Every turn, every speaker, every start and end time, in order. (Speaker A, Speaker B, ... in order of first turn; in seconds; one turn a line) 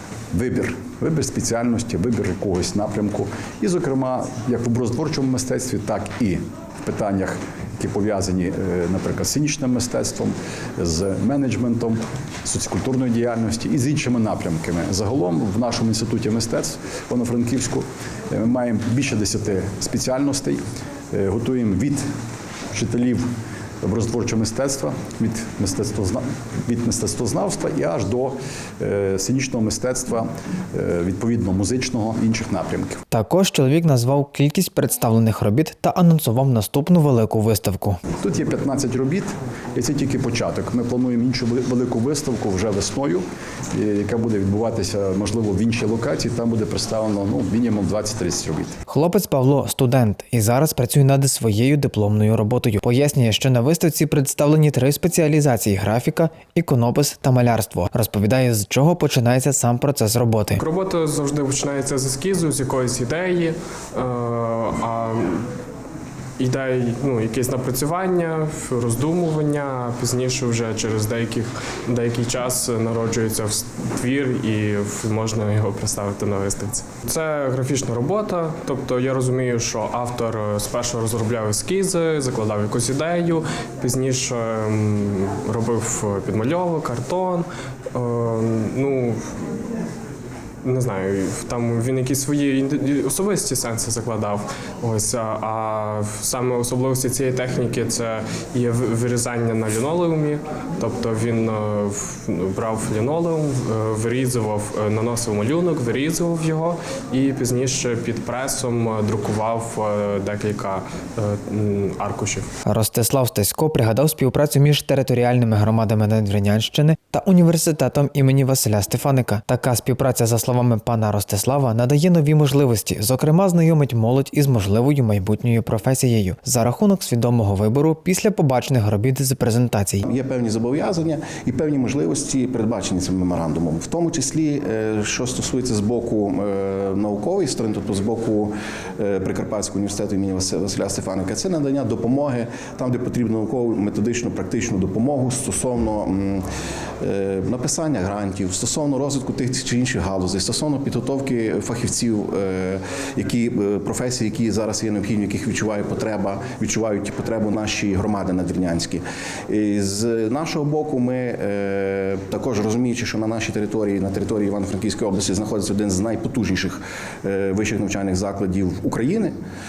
Speaker A: 0.3-20.6
Speaker A: 21.1-22.1
Speaker A: 22.7-23.3
Speaker A: 23.8-33.0
Speaker B: 33.1-38.0
Speaker A: 38.2-48.8
Speaker B: 48.9-60.6
Speaker C: 60.6-65.5
Speaker C: 66.4-89.4
Speaker C: 90.6-112.5
Speaker B: 112.7-130.0
Speaker D: 130.0-146.4
Speaker D: 147.0-169.3